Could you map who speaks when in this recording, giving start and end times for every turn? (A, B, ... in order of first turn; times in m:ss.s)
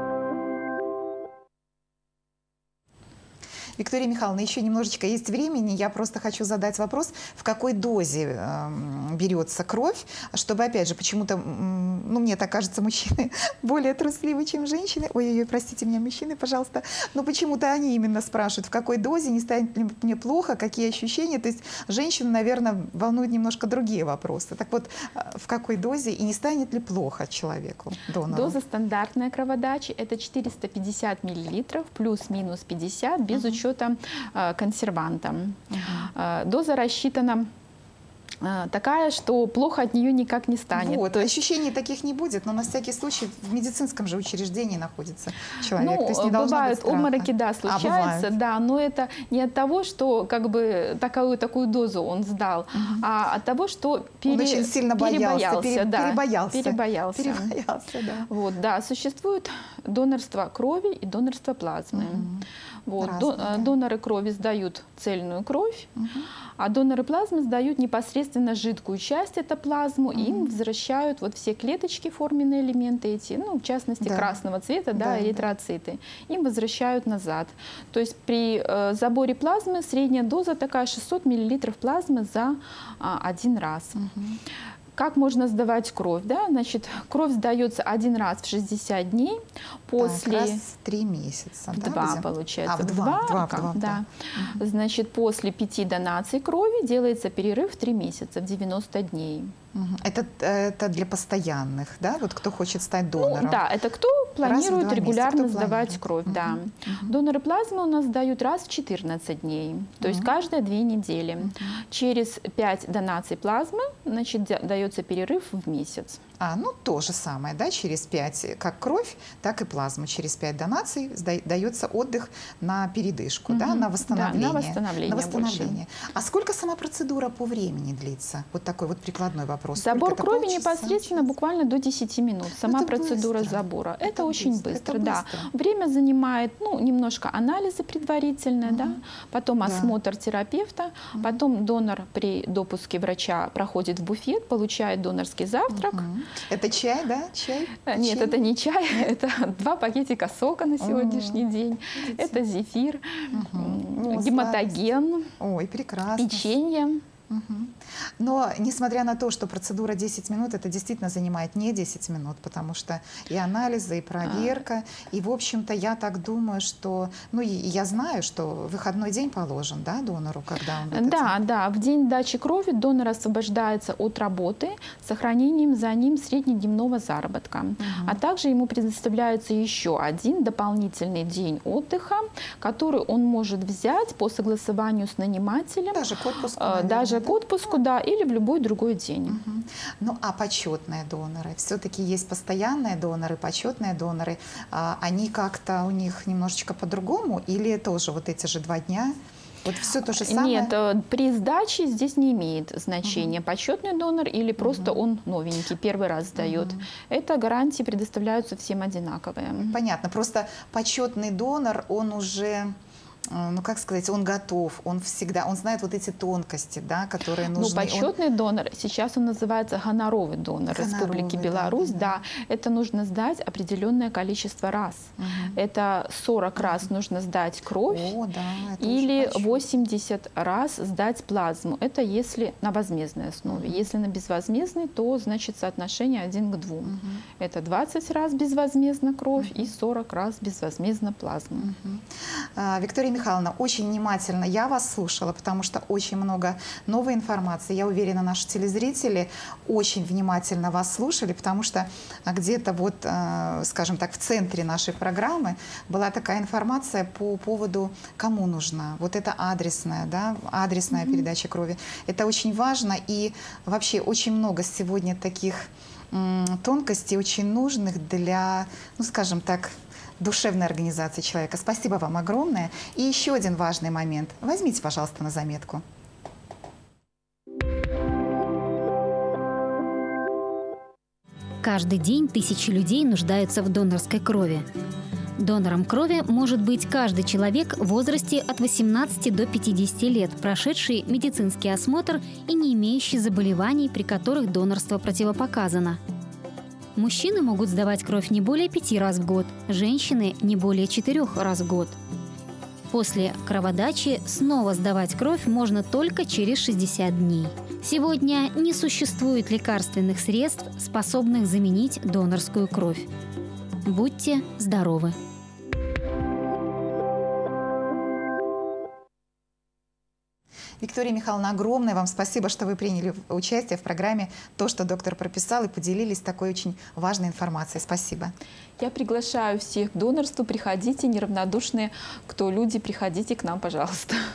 0:03.8-0:28.6 A
0:28.3-0:35.6 B
0:33.3-0:33.6 A
0:35.7-0:36.1 A
0:36.1-0:37.5 B
0:38.4-0:41.2 B
0:40.7-0:48.3 A
0:45.8-0:57.5 B
0:52.7-0:53.0 A
0:54.3-0:58.3 A
0:58.3-1:02.3 B
1:01.9-1:02.4 A
1:02.9-1:05.9 B
1:03.0-1:03.7 A
1:06.0-1:06.3 A
1:06.6-1:24.0 B
1:10.1-1:10.5 A
1:14.0-1:14.4 A
1:15.0-1:15.5 A
1:24.0-1:24.4 A
1:25.0-1:30.6 B
1:30.0-1:34.6 A
1:31.7-1:39.5 B
1:39.7-1:43.7 A
1:43.2-1:56.2 B
1:44.4-1:47.1 A
1:50.0-1:50.3 A
1:51.4-1:51.8 A
1:56.4-2:11.3 A
2:03.5-2:05.8 B
2:09.8-2:26.1 B
2:12.6-2:15.5 A
2:18.7-2:19.0 A
2:19.6-2:19.9 A
2:25.7-2:29.1 A
2:27.9-2:35.3 B
2:30.8-2:31.4 A
2:32.0-2:32.4 A
2:33.3-2:34.8 A
2:35.4-2:36.5 A
2:36.2-2:37.0 B
2:37.3-2:51.4 A
2:44.2-2:44.6 B
2:50.9-3:06.1 B
2:57.8-2:58.2 A
3:05.9-3:07.8 A
3:06.6-3:09.4 B
3:09.3-3:20.7 A
3:20.1-3:29.8 B
3:23.0-3:23.3 A
3:24.6-3:25.0 A
3:26.4-3:26.8 A
3:29.6-3:32.7 A
3:33.3-3:38.1 A
3:37.5-3:48.1 B
3:40.7-3:42.2 A
3:45.2-3:45.6 A
3:46.6-3:46.9 A
3:47.8-3:49.6 A
3:48.8-4:01.7 B
3:53.5-3:53.8 A
3:56.8-3:57.2 A
3:59.4-3:59.7 A
4:01.6-4:35.8 A
4:20.9-4:21.2 B
4:41.6-4:44.7 C
4:45.4-4:56.0 C
4:57.0-5:02.0 C
5:02.9-5:13.1 C
5:13.8-5:15.2 C
5:20.8-5:28.3 A
5:28.8-5:34.2 B